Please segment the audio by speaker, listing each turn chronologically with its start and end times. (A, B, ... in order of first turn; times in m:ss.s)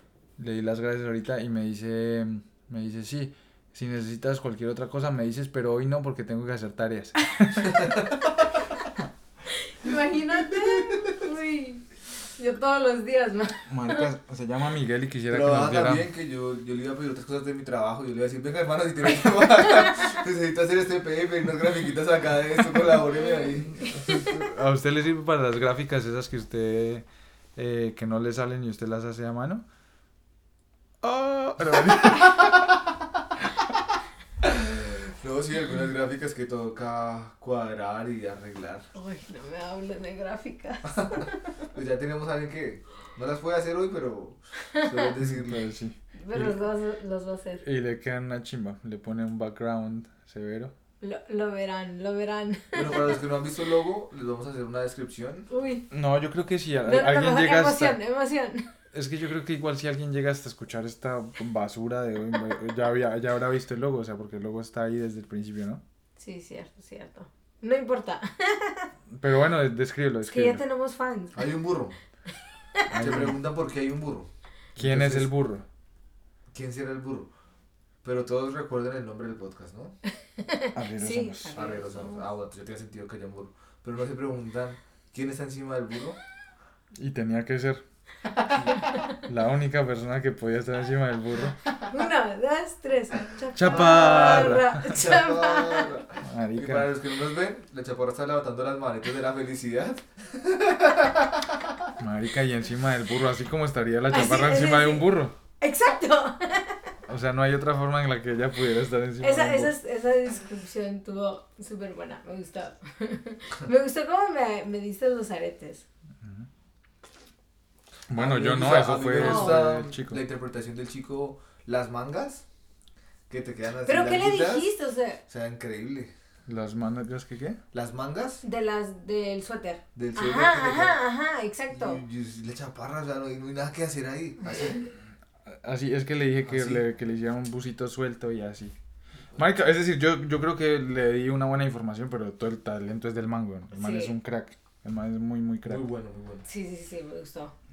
0:00.4-0:08.1 A
0:07.7-0:08.2 B
0:09.6-0:14.1 C
0:13.7-0:16.1 A
0:15.3-0:24.1 B
0:23.9-0:29.6 A
0:24.0-0:24.3 C
0:31.0-0:32.8 A
0:34.4-0:38.8 B
0:38.9-0:41.3 C
0:41.7-0:45.6 B
0:45.2-0:46.6 A
0:46.2-0:47.6 C
0:47.6-0:50.7 A
0:51.0-0:53.2 C
0:52.7-0:55.4 B
0:55.5-0:55.8 C
0:55.9-0:58.0 A
0:56.8-0:58.7 C
0:58.9-1:05.8 A
1:06.2-1:08.9 C
1:09.2-1:10.6 A
1:10.3-1:11.4 C
1:11.3-1:12.0 B
1:12.9-1:13.4 A
1:12.9-1:15.3 B
1:14.8-1:15.6 A
1:16.5-1:17.3 B
1:18.0-1:19.9 B
1:20.4-1:22.2 C
1:20.7-1:21.5 A
1:21.5-1:26.2 B
1:26.9-1:27.8 A
1:29.1-1:31.6 A
1:31.8-1:35.9 C
1:33.5-1:34.8 A
1:33.7-1:41.5 B
1:36.2-1:36.9 A
1:42.0-1:45.3 A
1:44.1-1:46.9 C
1:47.1-1:49.7 A
1:49.2-1:55.8 C
1:58.1-2:00.2 A
1:58.1-2:02.4 B
1:59.2-1:59.6 C
2:03.3-2:04.7 B
2:03.8-2:05.2 C
2:05.3-2:06.1 B
2:06.5-2:07.6 A
2:07.7-2:08.4 B
2:08.4-2:12.0 C
2:09.9-2:11.0 B
2:11.7-2:14.9 B
2:15.5-2:18.7 A
2:16.4-2:16.8 B
2:19.4-2:25.8 A
2:23.7-2:24.1 C
2:25.6-2:26.4 B
2:26.4-2:27.5 C